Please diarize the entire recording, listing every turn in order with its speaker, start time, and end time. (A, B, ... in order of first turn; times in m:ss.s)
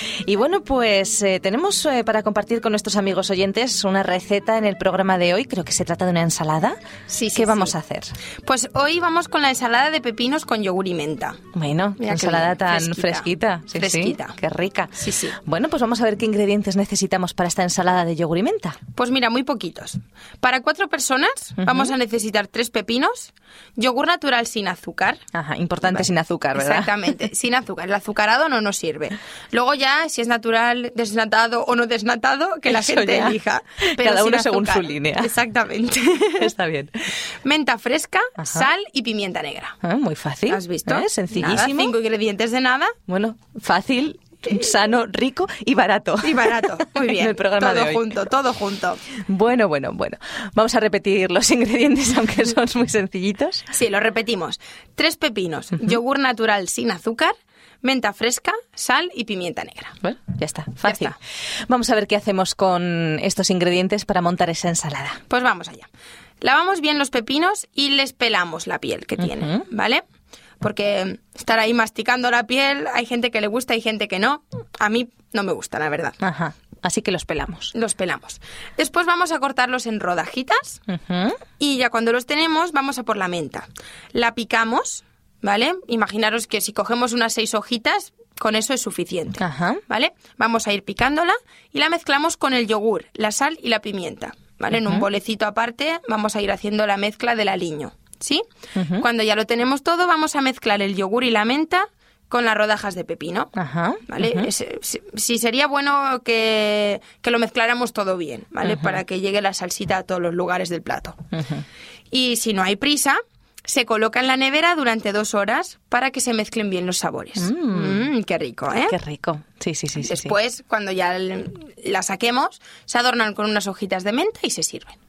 0:00.2-0:06.8 A
0:07.1-0:07.8 B
0:07.4-0:08.1 A
0:08.4-0:11.4 B
0:11.5-0:18.8 A
0:12.0-0:14.4 B
0:15.0-0:15.4 B
0:19.0-0:25.2 B
0:21.6-0:21.9 A
0:25.3-0:26.9 A
0:25.8-0:36.5 B
0:32.7-0:33.4 A
0:33.9-0:35.3 A
0:36.4-0:36.9 A
0:37.4-0:39.8 B
0:38.4-0:38.7 A
0:39.8-0:42.0 A
0:40.5-0:43.0 B
0:43.1-0:48.2 A
0:46.2-0:49.0 B
0:49.3-0:53.7 A
0:53.7-1:00.0 B
1:00.0-1:01.1 A
1:00.8-1:01.2 B
1:01.7-1:05.2 A
1:05.3-1:05.9 B
1:06.4-1:10.0 B
1:09.2-1:09.6 A
1:10.6-1:16.2 B
1:16.2-1:17.7 A
1:17.7-1:20.8 B
1:20.9-1:21.4 A
1:21.6-1:38.4 B
1:29.4-1:29.8 A
1:34.8-1:35.0 A
1:38.8-1:39.0 A
1:39.0-1:43.5 B
1:43.6-1:44.5 A
1:44.1-1:51.2 B
1:48.6-1:49.0 A
1:51.3-1:51.6 A
1:52.1-1:59.0 B
1:57.4-1:58.1 A
1:58.9-2:00.3 A
2:00.0-2:05.0 B